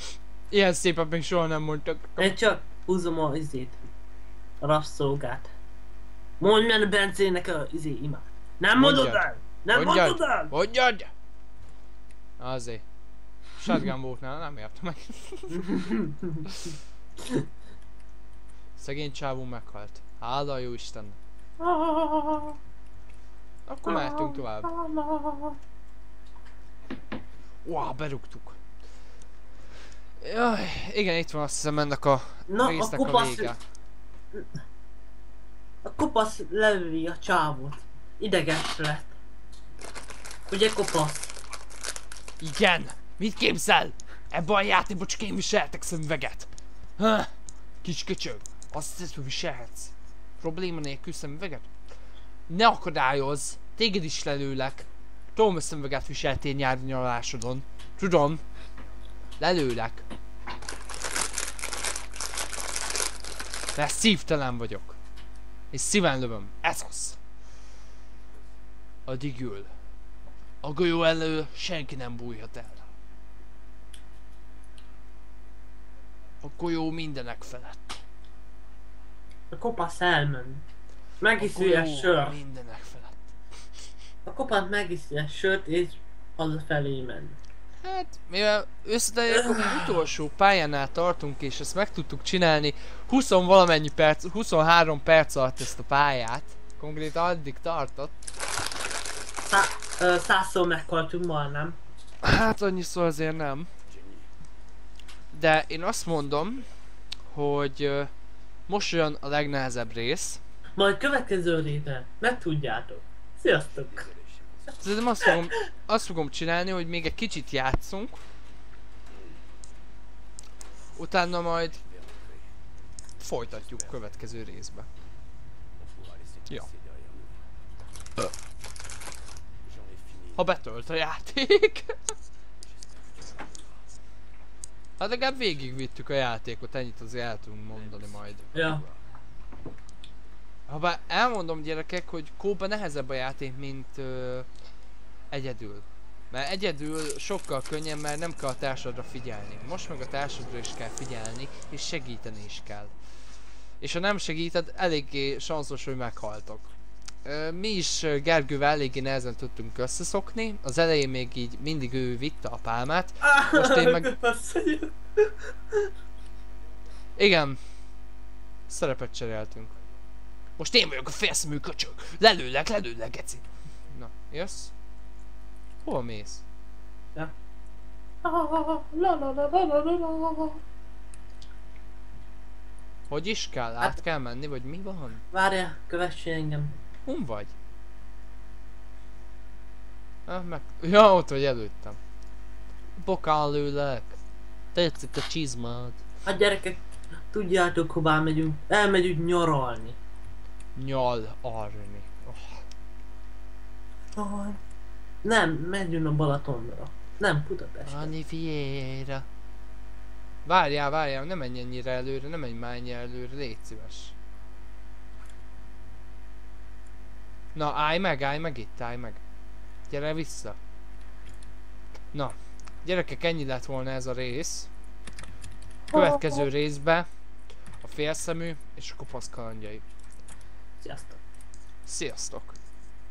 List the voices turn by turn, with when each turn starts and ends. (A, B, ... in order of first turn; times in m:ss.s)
0:00.5-0:02.3 A
0:02.2-0:03.8 B
0:04.6-0:05.5 B
0:06.4-0:10.5 B
0:08.7-0:11.1 A
0:12.4-0:12.8 A
0:13.6-0:15.9 A
0:15.5-0:16.5 B
0:16.4-0:16.8 A
0:17.2-0:17.5 B
0:18.8-0:21.2 A
0:21.6-0:22.6 B
0:23.7-0:24.7 A
0:23.9-0:25.6 B
0:27.6-0:28.6 A
0:30.2-0:33.6 A
0:32.5-0:33.5 B
0:35.8-0:39.2 B
0:40.5-0:41.3 B
0:42.4-0:47.3 A
0:47.8-0:51.7 A
0:52.5-0:58.4 A
0:59.4-1:00.0 A
1:03.8-1:05.0 A
1:05.7-1:07.2 A
1:09.1-1:09.7 A
1:10.6-1:12.9 A
1:16.4-1:18.0 A
1:19.5-1:20.6 B
1:21.2-1:22.4 B
1:21.4-1:23.4 A
1:24.3-1:27.4 B
1:27.8-1:38.1 A
1:29.3-1:29.9 B
1:39.5-1:41.8 B
1:42.2-1:43.7 A
1:45.3-1:46.7 A
1:47.3-1:48.1 A
1:48.7-1:50.4 A
1:50.8-1:54.1 B
1:54.8-1:58.2 A
2:01.0-2:01.8 A
2:03.2-2:04.9 A
2:10.3-2:12.1 A
2:15.0-2:18.5 A
2:18.5-2:18.8 B
2:20.7-2:24.5 A
2:25.3-2:32.9 A
2:33.8-2:36.7 A
2:37.2-2:44.1 A
2:43.2-2:45.9 B
2:47.2-2:47.6 A
2:48.7-2:49.7 A
2:50.6-2:54.7 A
2:55.8-2:56.4 A
2:58.2-3:00.6 B
3:03.1-3:05.2 A
3:05.3-3:06.8 B
3:07.1-3:07.5 A
3:10.3-3:12.0 A
3:13.0-3:14.2 A
3:14.8-3:16.0 A
3:16.3-3:20.0 B
3:20.8-3:22.6 A
3:24.2-3:24.6 B
3:25.2-3:28.1 B
3:27.9-3:29.3 A
3:30.5-3:34.2 A
3:37.6-3:39.2 A
3:39.9-3:40.6 A
3:42.1-3:44.7 A
3:45.9-3:46.5 B
3:45.9-3:47.1 A
3:47.8-3:49.8 A
3:50.8-3:51.2 B
3:51.9-3:52.6 A